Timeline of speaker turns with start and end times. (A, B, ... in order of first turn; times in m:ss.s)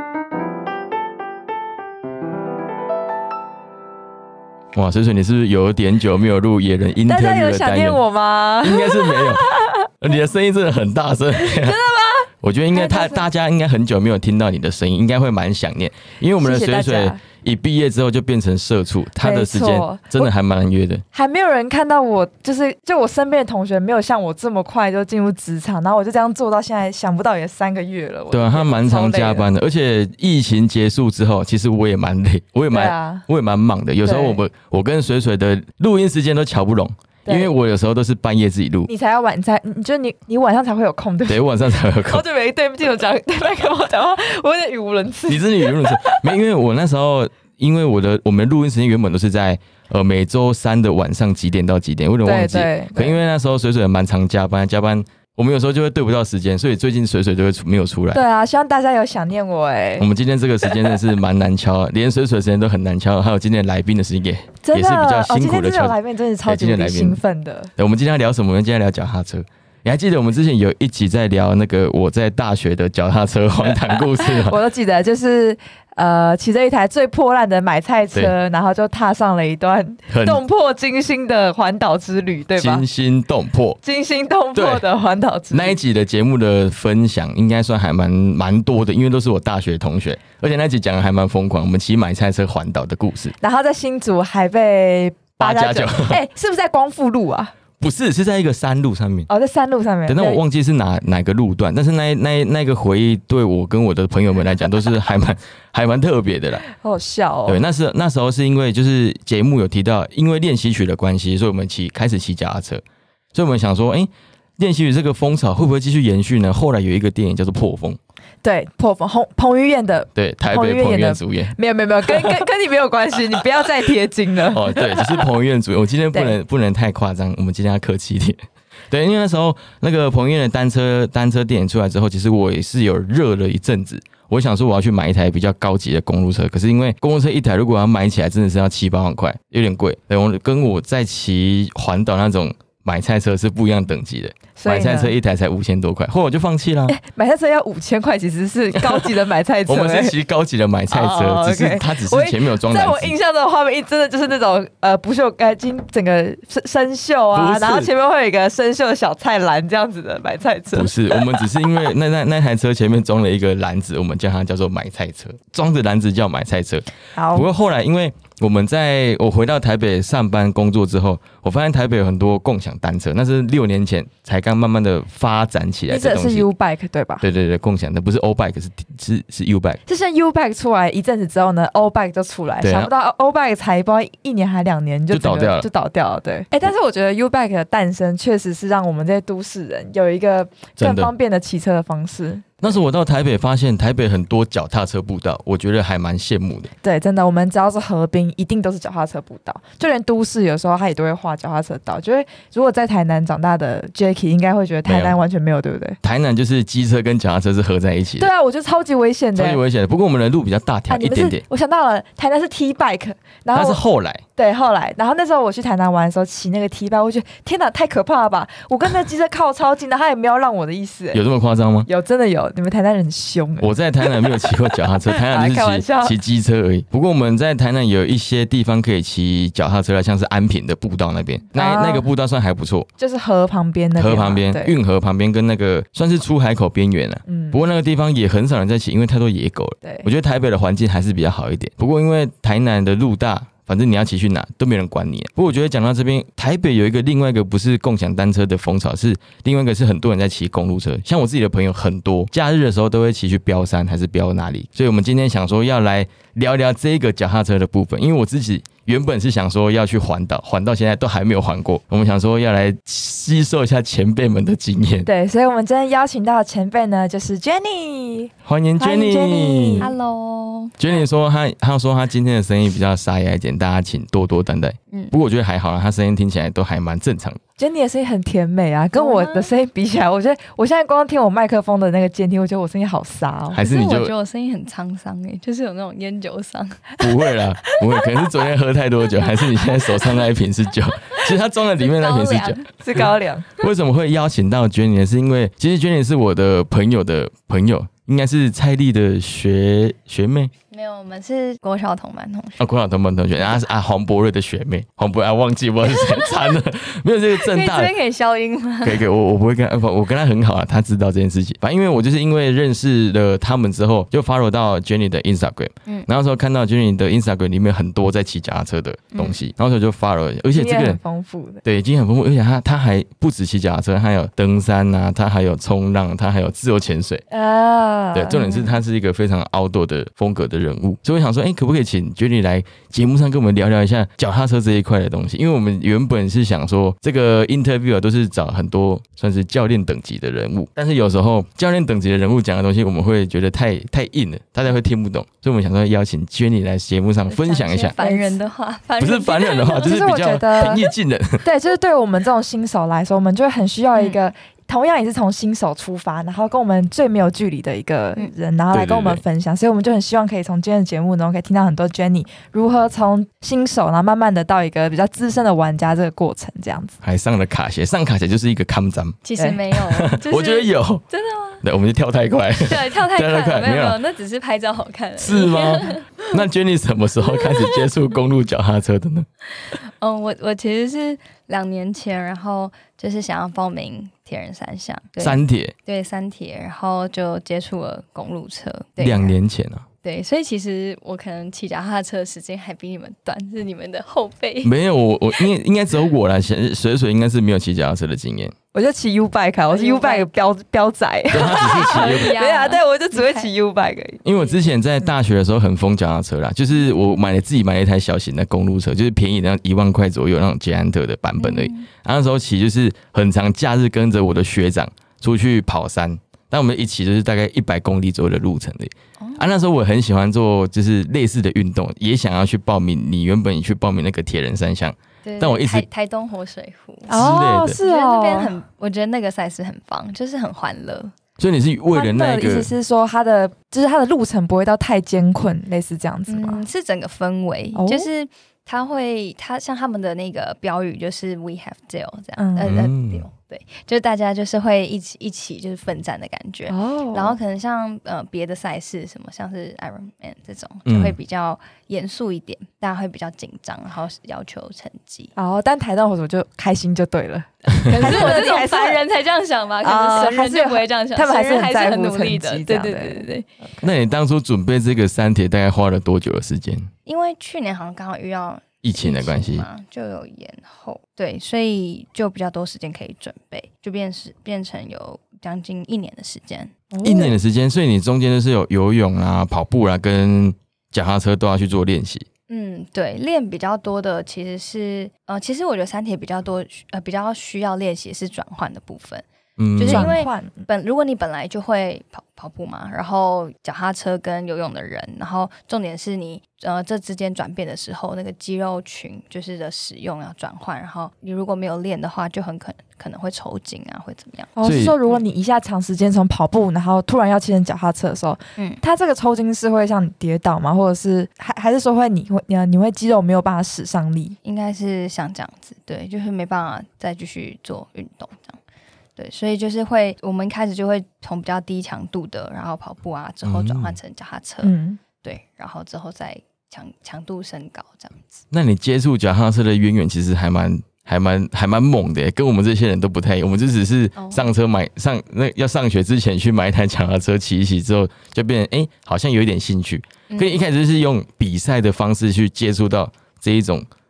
0:04.7-0:08.0 A
0:07.0-0:09.9 B
0:08.6-0:11.8 A
0:11.4-0:13.3 B
0:12.4-0:21.0 A
0:16.4-0:17.2 B
0:19.2-0:20.3 B
0:21.1-0:29.5 B
0:28.3-0:38.9 A
0:32.7-0:33.2 B
0:34.0-0:34.4 B
0:37.2-0:37.5 B
0:38.9-0:46.3 B
0:41.3-0:42.2 A
0:45.3-0:58.2 A
0:52.2-0:53.2 B
0:58.1-1:00.1 B
1:00.0-1:07.2 A
1:00.7-1:00.9 B
1:04.6-1:07.7 B
1:07.8-1:14.6 A
1:13.9-1:22.8 B
1:20.1-1:20.4 A
1:22.6-1:23.8 A
1:23.8-1:25.8 B
1:24.5-1:24.9 A
1:25.5-1:33.3 A
1:33.4-1:37.5 B
1:35.4-1:36.2 A
1:37.8-1:39.3 A
1:39.3-1:40.4 B
1:40.1-1:46.6 A
1:46.7-1:47.6 B
1:47.5-1:58.0 A
1:58.4-2:05.2 B
2:00.2-2:01.5 A
2:02.1-2:02.4 A
2:04.5-2:27.0 A
2:24.6-2:25.1 B
2:26.9-2:30.1 B
2:28.8-2:33.1 A
2:30.9-2:41.6 B
2:37.3-2:37.9 A
2:40.7-2:56.5 A
2:47.1-2:47.5 B
2:55.9-2:57.2 B
2:57.2-2:59.8 A
2:59.8-3:12.8 B
3:02.6-3:02.9 A
3:05.1-3:05.7 A
3:10.8-3:11.1 A
3:12.6-3:16.7 A
3:16.8-3:26.0 B
3:24.8-3:25.2 A
3:26.0-3:28.3 A
3:28.2-3:29.6 B
3:29.4-3:31.4 A
3:30.9-3:33.8 B
3:33.5-3:34.2 A
3:34.4-3:41.2 B
3:41.1-3:41.9 A
3:41.8-3:46.1 B
3:43.6-3:52.9 A
3:51.5-3:52.1 B
3:53.0-3:54.8 B
3:54.0-4:25.1 A
3:57.3-3:57.6 B
3:59.8-4:00.1 B
4:25.0-4:29.9 B
4:28.4-4:29.9 A
4:29.8-4:30.8 C
4:30.8-4:37.4 A
4:37.6-4:43.6 B
4:38.9-4:39.5 C
4:43.5-4:44.1 A
4:43.6-4:47.0 C
4:47.0-5:00.5 A
4:51.2-4:52.7 C
4:52.8-4:53.5 B
5:00.7-5:02.6 C
5:02.6-5:07.9 A
5:05.9-5:06.6 C
5:07.3-5:09.0 C
5:08.8-5:21.0 A
5:19.1-5:19.4 C
5:20.5-5:21.6 B
5:21.6-5:27.2 A
5:27.3-5:28.7 B
5:28.1-5:47.9 A
5:47.3-5:50.0 C
5:48.0-5:48.4 B
5:49.0-5:51.4 A
5:49.8-5:50.8 B
5:51.4-6:07.0 B
5:53.9-5:54.2 C
5:58.7-5:59.2 A
6:07.0-6:09.2 A
6:09.2-6:11.6 C
6:09.7-6:11.0 A
6:11.6-6:14.0 A
6:12.6-6:16.4 C
6:15.2-6:19.3 A
6:17.3-6:17.8 C
6:19.6-6:29.4 C
6:25.2-6:25.7 A
6:29.0-6:29.8 A
6:30.0-6:34.7 C
6:34.6-6:38.5 A
6:38.7-6:44.2 B
6:39.7-6:40.3 C
6:41.3-6:42.4 A
6:41.4-6:43.5 C
6:44.2-7:05.8 A
6:51.4-6:51.9 C
6:59.2-6:59.5 C
7:05.2-7:07.2 C
7:07.1-7:07.8 A
7:07.1-7:08.5 B
7:07.8-7:11.1 C
7:11.4-7:12.7 A
7:11.9-7:16.6 B
7:16.3-7:35.3 C
7:17.7-7:18.1 B
7:22.4-7:22.8 B
7:22.6-7:23.3 A
7:26.7-7:27.4 B
7:30.8-7:31.2 A
7:35.3-7:39.0 B
7:37.7-7:43.5 C
7:39.8-7:43.2 B
7:43.8-7:46.9 A
7:47.0-7:56.7 C
7:48.8-7:49.7 A
7:56.9-7:57.3 B
7:57.0-8:02.2 A
8:02.5-8:09.2 C
8:09.6-8:10.2 A
8:09.8-8:24.6 C
8:09.9-8:10.7 B
8:24.6-8:34.4 B
8:24.6-8:25.0 A
8:34.4-8:38.6 C
8:39.2-8:48.4 C
8:43.4-8:44.0 A
8:44.6-8:45.0 B
8:48.5-9:03.9 A
8:54.2-8:54.5 C
9:00.3-9:00.6 C